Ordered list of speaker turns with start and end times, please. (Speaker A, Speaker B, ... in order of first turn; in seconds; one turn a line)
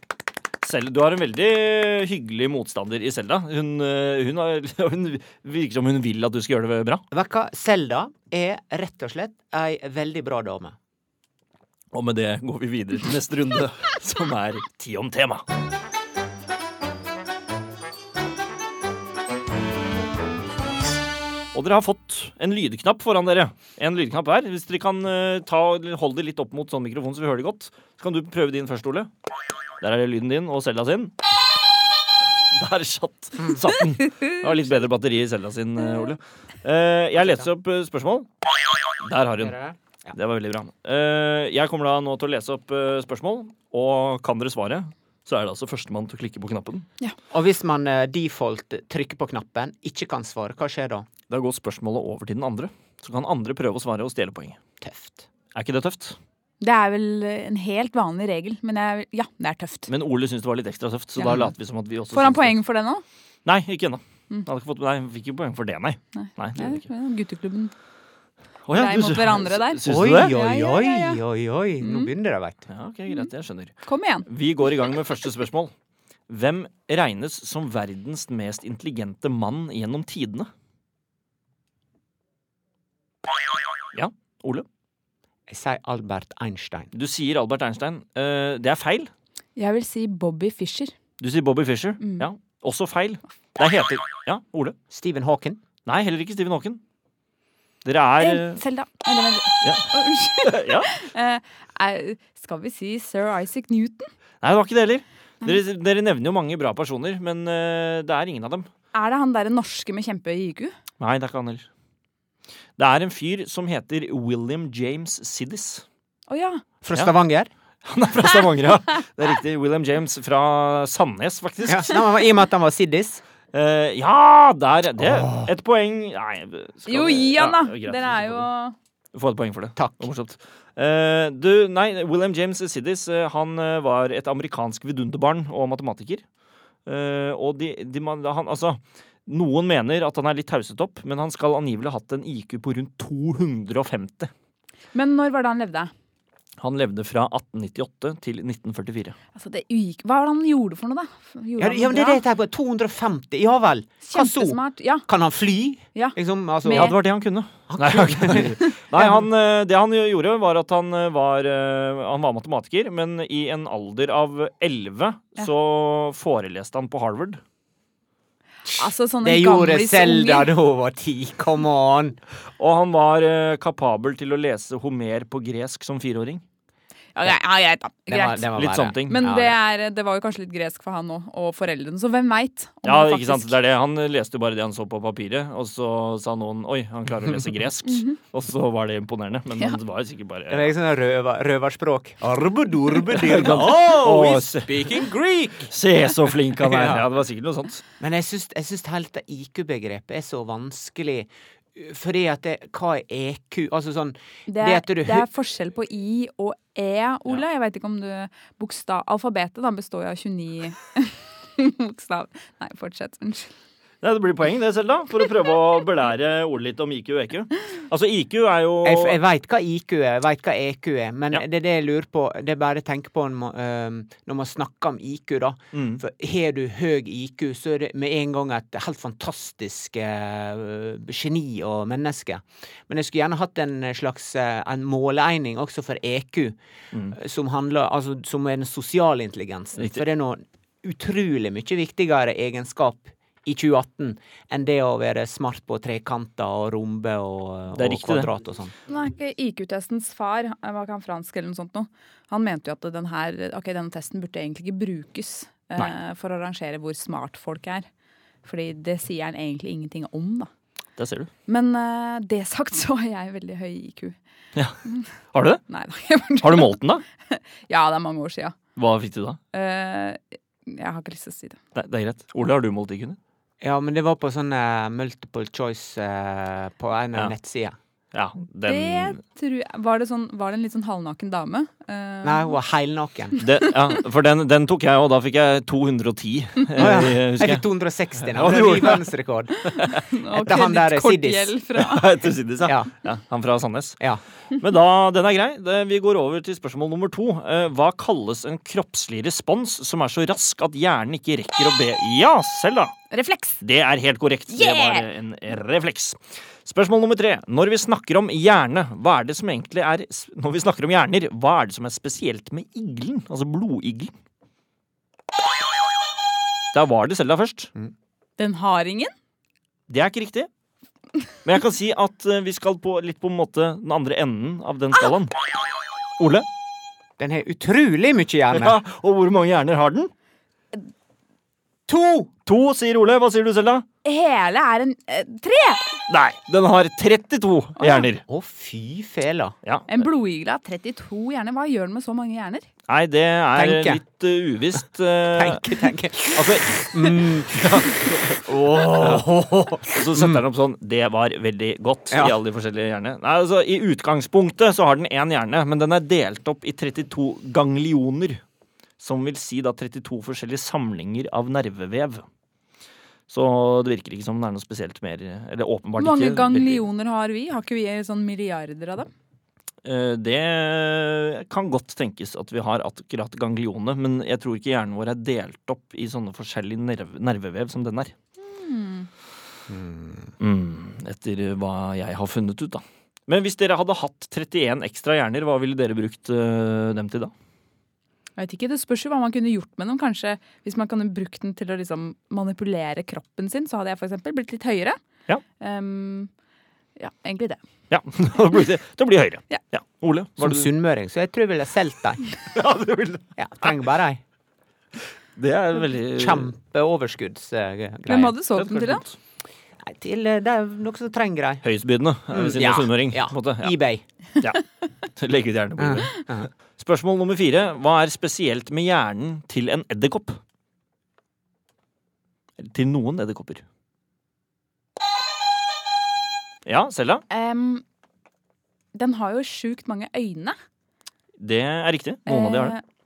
Speaker A: 0.6-7.0
Speaker B: 7.1-10.8
Speaker A: 11.9-15.4
Speaker A: 21.5-29.1
Speaker A: 29.8-31.1
Speaker A: 32.5-38.3
Speaker B: 37.2-37.5
Speaker A: 39.0-39.5
Speaker B: 39.4-40.1
Speaker A: 40.1-46.9
Speaker B: 47.3-51.1
Speaker A: 51.3-54.6
Speaker B: 54.8-55.3
Speaker A: 55.5-56.2
Speaker C: 56.6-59.9
Speaker A: 59.9-62.6
Speaker C: 62.1-63.0
Speaker A: 63.5-66.8
Speaker C: 66.1-67.7
Speaker A: 68.7-70.3
Speaker C: 68.7-71.2
Speaker B: 69.8-72.7
Speaker C: 71.8-72.1
Speaker A: 72.7-73.7
Speaker C: 73.8-74.2
Speaker A: 74.2-75.7
Speaker A: 76.3-80.5
Speaker A: 83.9-84.7
Speaker B: 85.5-86.9
Speaker A: 86.9-89.1
Speaker C: 89.5-90.9
Speaker A: 91.2-94.8
Speaker C: 92.0-92.2
Speaker B: 94.9-95.6
Speaker A: 95.8-96.8
Speaker A: 97.8-98.6
Speaker C: 98.2-104.1
Speaker A: 99.6-99.9
Speaker A: 100.4-100.9
Speaker A: 104.4-108.7
Speaker C: 108.9-110.7
Speaker A: 111.0-111.7
Speaker A: 112.8-115.8
Speaker C: 116.3-116.6
Speaker B: 116.8-117.5
Speaker A: 117.8-122.0
Speaker B: 121.6-123.2
Speaker A: 123.5-128.4
Speaker B: 125.0-125.5
Speaker C: 126.9-128.7
Speaker A: 129.1-136.2
Speaker B: 129.8-130.1
Speaker A: 136.8-144.3
Speaker C: 144.9-145.9
Speaker A: 146.6-149.2
Speaker C: 149.3-152.2
Speaker B: 151.6-157.0
Speaker C: 154.1-155.1
Speaker C: 155.9-156.9
Speaker A: 156.7-167.4
Speaker B: 157.7-159.1
Speaker B: 168.6-172.2
Speaker C: 168.8-170.5
Speaker A: 172.6-176.4
Speaker C: 177.1-178.5
Speaker B: 178.1-179.5
Speaker A: 178.5-179.3
Speaker C: 179.1-183.5
Speaker A: 182.8-190.7
Speaker C: 187.9-188.2
Speaker B: 190.5-195.7
Speaker A: 193.1-195.1
Speaker A: 195.7-197.8
Speaker B: 196.6-197.0
Speaker B: 198.0-205.3
Speaker C: 204.5-213.5
Speaker A: 214.0-219.2
Speaker B: 218.8-236.6
Speaker A: 225.7-226.0
Speaker B: 237.1-248.7
Speaker A: 239.8-240.0
Speaker A: 247.7-248.3
Speaker C: 248.9-257.9
Speaker C: 258.4-260.5
Speaker A: 261.0-261.3
Speaker C: 261.5-264.1
Speaker A: 265.3-265.6
Speaker C: 265.7-268.6
Speaker A: 266.4-267.0
Speaker A: 268.8-269.4
Speaker C: 269.5-271.6
Speaker A: 271.7-273.2
Speaker B: 273.6-277.8
Speaker A: 278.1-279.2
Speaker C: 278.6-282.5
Speaker B: 282.2-283.4
Speaker A: 283.4-287.6
Speaker B: 286.7-291.5
Speaker A: 288.2-289.1
Speaker C: 289.6-292.1
Speaker A: 291.8-294.0
Speaker B: 292.6-292.9
Speaker A: 294.6-302.9
Speaker C: 303.1-303.6
Speaker A: 303.6-314.1
Speaker C: 304.5-305.1
Speaker A: 316.7-317.7
Speaker C: 318.4-319.1
Speaker A: 319.9-320.5
Speaker A: 321.4-325.3
Speaker A: 326.2-326.4
Speaker B: 327.2-328.8
Speaker A: 328.5-330.1
Speaker B: 331.9-332.3
Speaker A: 332.4-333.8
Speaker C: 334.0-335.9
Speaker A: 336.1-338.2
Speaker C: 337.8-338.1
Speaker B: 338.3-339.5
Speaker A: 339.6-340.0
Speaker C: 339.9-342.7
Speaker A: 342.9-345.7
Speaker B: 343.5-344.0
Speaker B: 345.3-350.4
Speaker A: 346.3-358.4
Speaker A: 359.0-362.2
Speaker A: 363.3-366.8
Speaker C: 366.0-369.1
Speaker A: 369.8-378.1
Speaker C: 378.4-379.1
Speaker B: 379.7-380.3
Speaker A: 380.4-387.3
Speaker C: 388.4-395.0
Speaker C: 395.6-396.3
Speaker C: 397.0-397.6
Speaker A: 397.9-400.7
Speaker B: 400.4-402.2
Speaker A: 402.5-403.7
Speaker B: 403.4-404.2
Speaker A: 405.4-406.5
Speaker B: 406.1-408.3
Speaker C: 408.1-409.0
Speaker A: 408.4-409.1
Speaker B: 409.8-411.6
Speaker A: 411.6-413.7
Speaker B: 412.3-414.0
Speaker A: 415.1-420.4
Speaker B: 415.8-416.5
Speaker A: 422.6-423.6
Speaker A: 426.6-427.2
Speaker C: 427.3-427.8
Speaker C: 428.9-430.6
Speaker A: 431.4-432.7
Speaker C: 432.3-432.8